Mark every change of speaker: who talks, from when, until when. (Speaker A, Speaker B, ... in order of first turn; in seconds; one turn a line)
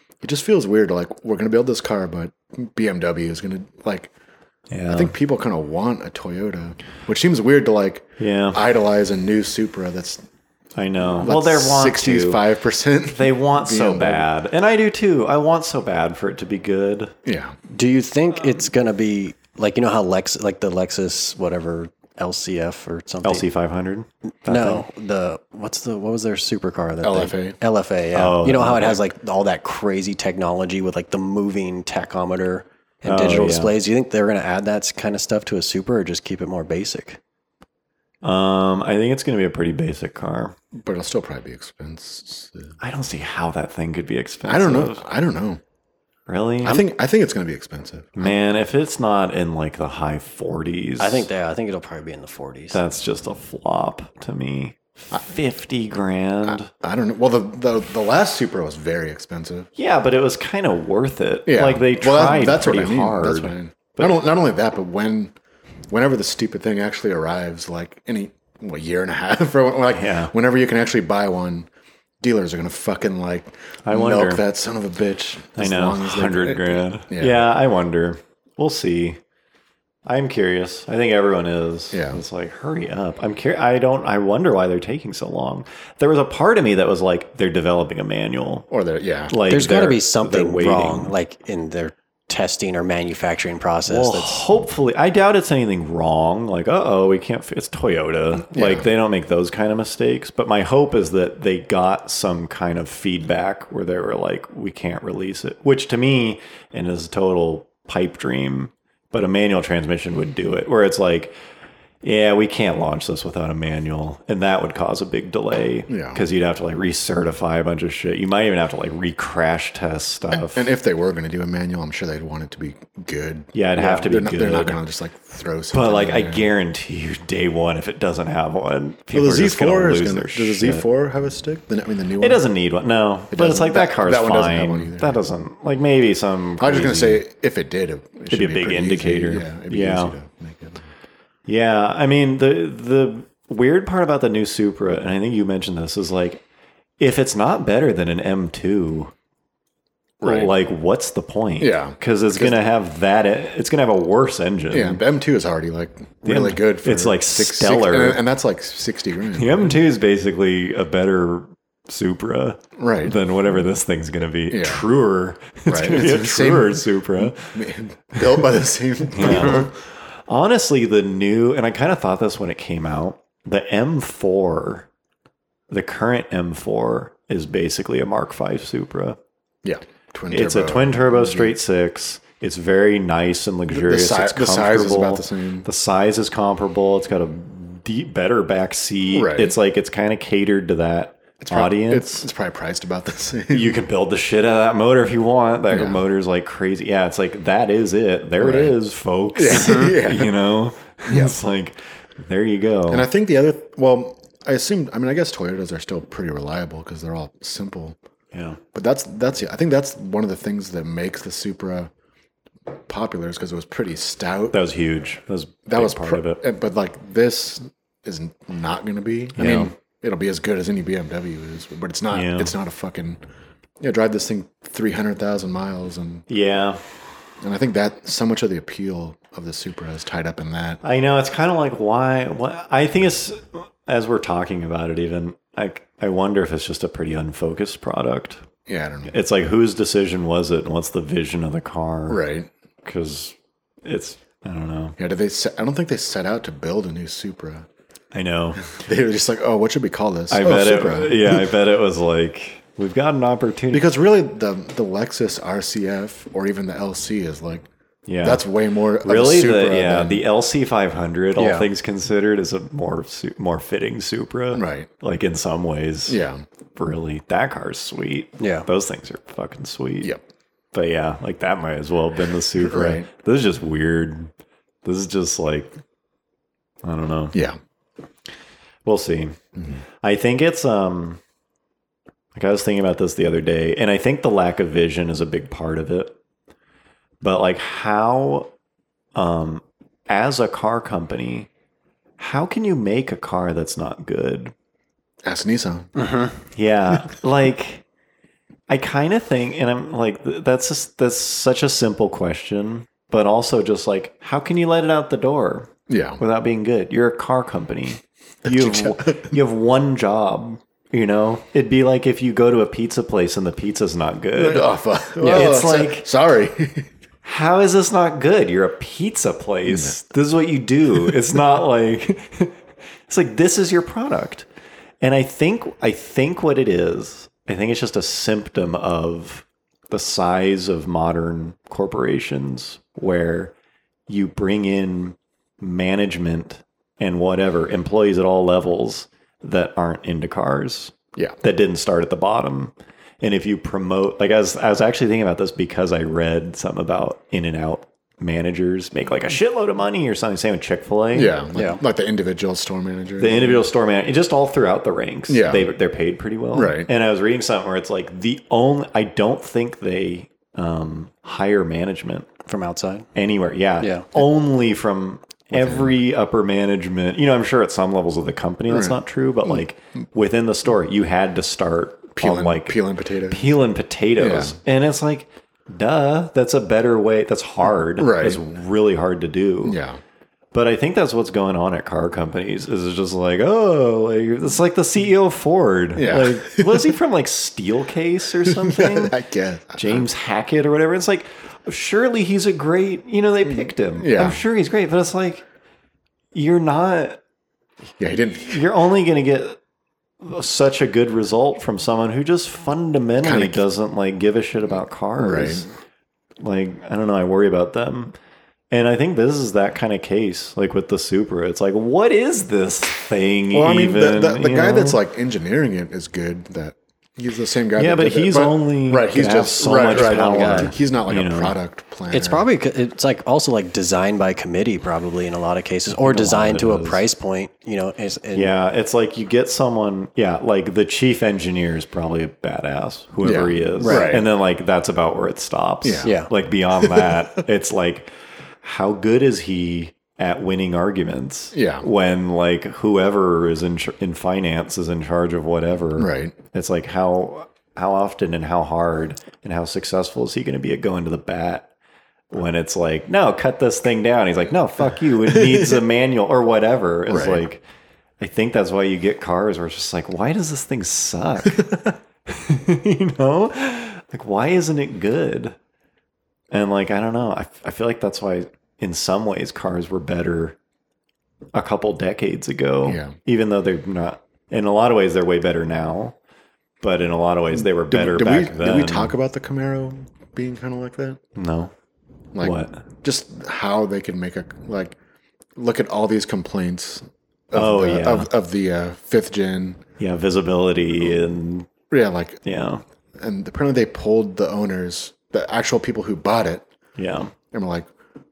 Speaker A: 0.2-4.1
Speaker B: 4.7-5.1
Speaker A: 4.9-10.2
Speaker B: 8.2-8.6
Speaker B: 10.8-12.4
Speaker A: 11.2-14.2
Speaker B: 13.1-17.1
Speaker A: 17.2-17.5
Speaker C: 17.7-23.4
Speaker B: 23.2-24.8
Speaker C: 24.4-37.2
Speaker A: 27.0-27.6
Speaker B: 28.1-29.0
Speaker B: 33.0-33.7
Speaker B: 38.2-40.5
Speaker A: 40.7-42.8
Speaker B: 42.8-45.0
Speaker A: 44.5-45.6
Speaker B: 46.3-46.8
Speaker A: 46.6-48.3
Speaker B: 48.1-51.3
Speaker C: 51.0-52.8
Speaker B: 52.7-56.7
Speaker A: 56.5-59.7
Speaker B: 59.8-64.1
Speaker A: 61.5-65.3
Speaker A: 65.9-71.7
Speaker B: 69.9-70.3
Speaker A: 72.2-77.4
Speaker B: 73.8-74.4
Speaker B: 75.6-79.2
Speaker B: 80.0-88.7
Speaker A: 81.9-82.2
Speaker A: 88.7-89.3
Speaker B: 89.3-91.1
Speaker C: 89.5-94.4
Speaker B: 93.8-111.3
Speaker A: 98.5-98.9
Speaker B: 112.0-120.7
Speaker A: 115.9-116.2
Speaker A: 120.3-126.4
Speaker B: 123.5-124.8
Speaker B: 125.7-130.8
Speaker A: 129.1-132.4
Speaker B: 132.2-137.2
Speaker A: 133.3-135.2
Speaker A: 136.6-140.8
Speaker B: 138.3-140.1
Speaker B: 141.4-146.4
Speaker B: 147.0-149.1
Speaker A: 150.2-150.5
Speaker B: 150.2-155.0
Speaker A: 151.6-152.6
Speaker A: 154.7-159.7
Speaker B: 156.2-158.2
Speaker B: 159.3-167.6
Speaker A: 162.8-163.2
Speaker A: 164.5-164.8
Speaker A: 165.7-169.7
Speaker B: 169.1-169.7
Speaker B: 170.3-174.9
Speaker B: 175.7-179.2
Speaker A: 179.6-181.5
Speaker B: 180.3-192.2
Speaker A: 183.7-185.7
Speaker A: 189.1-189.5
Speaker A: 191.4-193.8
Speaker B: 193.5-203.1
Speaker A: 195.7-196.0
Speaker A: 198.4-198.7
Speaker A: 199.3-200.3
Speaker A: 201.1-201.3
Speaker A: 202.9-208.0
Speaker B: 208.3-208.6
Speaker A: 208.7-211.9
Speaker A: 212.7-214.6
Speaker B: 214.5-216.4
Speaker A: 215.7-223.2
Speaker B: 219.3-219.7
Speaker B: 222.1-222.5
Speaker A: 223.8-226.3
Speaker B: 226.3-226.9
Speaker A: 227.4-230.8
Speaker B: 230.8-238.4
Speaker A: 238.7-239.1
Speaker B: 239.1-242.2
Speaker A: 242.1-242.5
Speaker B: 242.8-244.9
Speaker A: 245.0-247.7
Speaker B: 248.1-248.7
Speaker A: 248.6-251.5
Speaker B: 250.3-253.9
Speaker A: 253.7-257.7
Speaker B: 258.1-258.4
Speaker A: 258.2-260.2
Speaker B: 259.0-266.2
Speaker C: 261.4-261.7
Speaker A: 264.5-264.9
Speaker A: 266.1-266.4
Speaker B: 266.8-270.1
Speaker C: 268.4-268.7
Speaker B: 270.7-274.3
Speaker A: 272.7-273.1
Speaker B: 274.8-275.7
Speaker B: 276.8-277.4
Speaker B: 278.8-279.4
Speaker A: 279.6-279.8
Speaker B: 280.0-281.2
Speaker B: 282.3-286.1
Speaker B: 287.2-288.5
Speaker B: 289.1-291.5
Speaker B: 292.2-294.5
Speaker A: 295.2-295.9
Speaker C: 296.0-296.3
Speaker B: 296.5-297.8
Speaker B: 298.7-316.1
Speaker A: 305.9-306.2
Speaker A: 308.4-309.3
Speaker A: 314.3-316.9
Speaker C: 315.2-315.6
Speaker B: 317.2-322.6
Speaker A: 319.7-320.0
Speaker B: 323.1-324.4
Speaker B: 325.0-333.5
Speaker B: 334.1-351.4
Speaker A: 351.1-353.6
Speaker C: 351.5-351.8
Speaker B: 353.2-362.3
Speaker A: 355.3-355.7
Speaker A: 356.5-356.9
Speaker C: 362.5-363.1
Speaker B: 363.1-379.8
Speaker C: 363.8-364.1
Speaker A: 365.5-365.9
Speaker A: 368.7-369.6
Speaker A: 372.1-373.6
Speaker A: 374.2-374.5
Speaker A: 378.0-378.4
Speaker A: 379.6-380.0
Speaker B: 380.5-389.2
Speaker A: 385.9-386.9
Speaker A: 388.4-390.1
Speaker B: 389.7-395.4
Speaker A: 394.0-394.4
Speaker B: 396.3-397.2
Speaker A: 398.0-398.6
Speaker B: 398.4-399.6
Speaker B: 400.2-405.7
Speaker A: 403.2-403.6
Speaker A: 405.2-405.6
Speaker B: 406.4-408.1
Speaker B: 408.7-415.0
Speaker A: 413.5-422.4
Speaker B: 417.8-421.5
Speaker C: 419.9-420.7
Speaker C: 422.1-428.5
Speaker B: 425.9-427.0
Speaker B: 428.3-451.7
Speaker A: 433.2-434.2
Speaker C: 433.8-434.2
Speaker A: 435.8-436.1
Speaker C: 436.0-436.3
Speaker A: 436.8-437.2
Speaker A: 441.5-441.9
Speaker A: 445.9-446.3
Speaker B: 452.3-457.6
Speaker A: 455.3-455.8
Speaker A: 457.1-457.4
Speaker B: 458.2-465.6
Speaker B: 466.5-470.6
Speaker B: 471.5-476.1
Speaker A: 472.8-473.1
Speaker B: 476.8-479.1
Speaker A: 477.5-481.2
Speaker B: 481.3-481.7
Speaker A: 482.3-484.9
Speaker B: 482.4-482.8
Speaker A: 485.6-489.8
Speaker B: 487.5-488.3
Speaker B: 490.0-491.7
Speaker A: 491.9-492.4
Speaker B: 492.4-492.8
Speaker A: 493.2-496.6
Speaker B: 497.0-497.3
Speaker A: 497.5-497.9